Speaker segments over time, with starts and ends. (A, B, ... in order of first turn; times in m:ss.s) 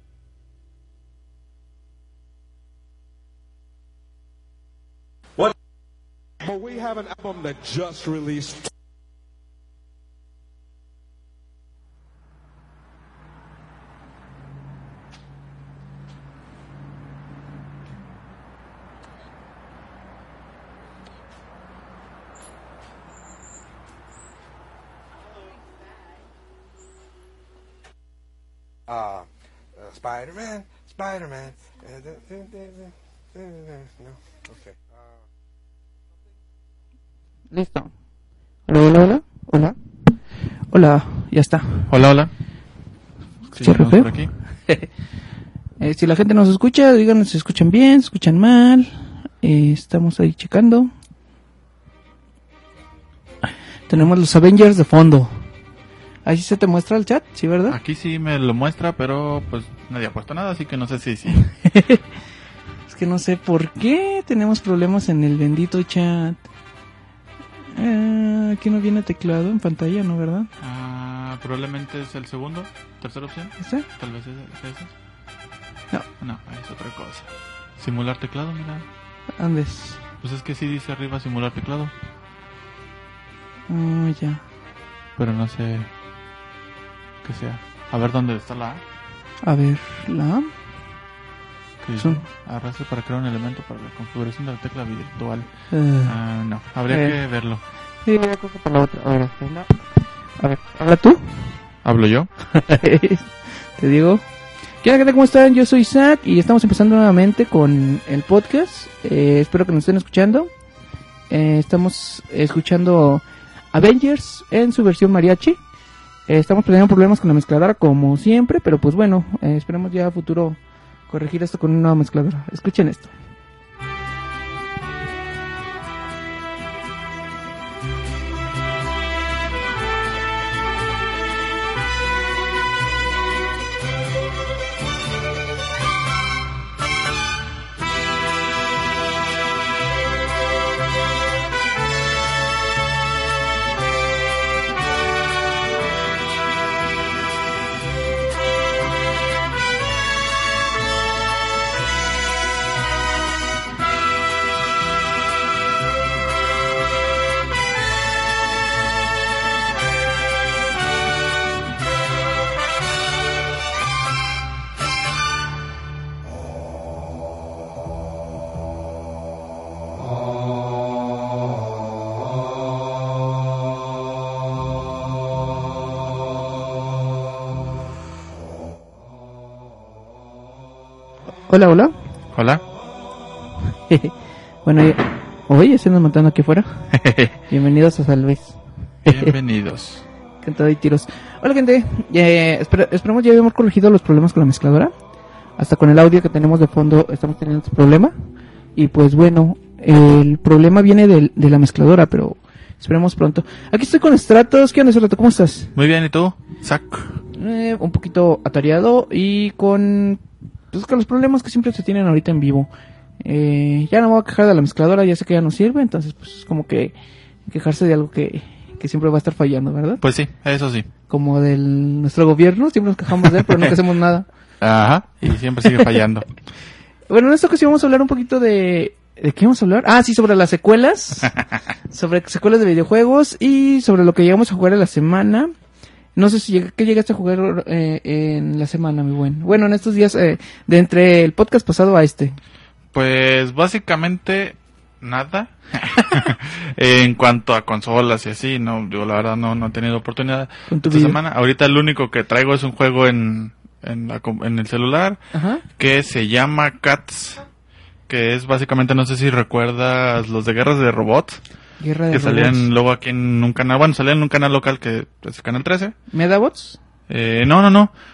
0:06.5-0:08.6 A
0:06.5-0:08.4 B
0:28.9-0:35.0 B
0:37.5-0:37.9 C
0:38.7-0:39.8 C
0:40.7-0:41.9 C
0:41.9-0:42.3 D
0:43.5-0:44.3 D
0:43.6-0:44.1 C
0:45.8-0:50.9 C
0:53.9-0:55.4 C
0:56.3-0:57.8 C
0:57.7-1:01.4 D
1:01.6-1:02.0 C
1:02.9-1:06.5 C
1:07.7-1:10.5 C
1:10.6-1:14.9 D
1:13.6-1:13.9 C
1:16.2-1:18.9 D
1:19.4-1:20.0 C
1:20.2-1:21.9 D
1:23.7-1:24.4 C
1:25.2-1:25.9 D
1:27.2-1:28.8 D
1:29.4-1:30.5 C
1:31.8-1:35.5 D
1:32.0-1:32.2 C
1:35.7-1:36.2 C
1:36.0-1:37.6 D
1:36.9-1:37.2 C
1:38.0-1:39.7 C
1:40.4-1:41.5 C
1:41.8-1:42.3 D
1:42.6-1:44.2 C
1:44.8-1:50.5 C
1:51.3-1:55.6 C
1:56.3-2:03.1 C
3:01.5-3:02.0 C
3:02.3-3:02.6 D
3:03.9-3:04.1 C
3:04.6-3:06.8 C
3:06.9-3:07.3 D
3:07.5-3:09.3 C
3:09.1-3:10.0 D
3:10.4-3:14.9 C
3:15.6-3:18.2 C
3:18.8-3:25.7 C
3:25.8-3:27.2 D
3:27.3-3:30.2 C
3:30.7-3:32.7 C
3:33.2-3:37.0 C
3:37.5-3:40.0 C
3:40.0-3:40.9 D
3:41.1-3:44.3 C
3:43.4-3:43.7 D
3:44.6-3:46.3 D
3:47.1-3:51.3 C
3:51.9-3:55.5 C
3:56.2-4:02.4 C
4:02.9-4:15.2 D
4:10.7-4:11.2 C
4:15.3-4:15.6 C
4:15.8-4:17.4 D
4:18.1-4:21.4 D
4:21.8-4:22.7 C
4:22.1-4:26.0 D
4:26.1-4:26.8 C
4:27.1-4:27.9 D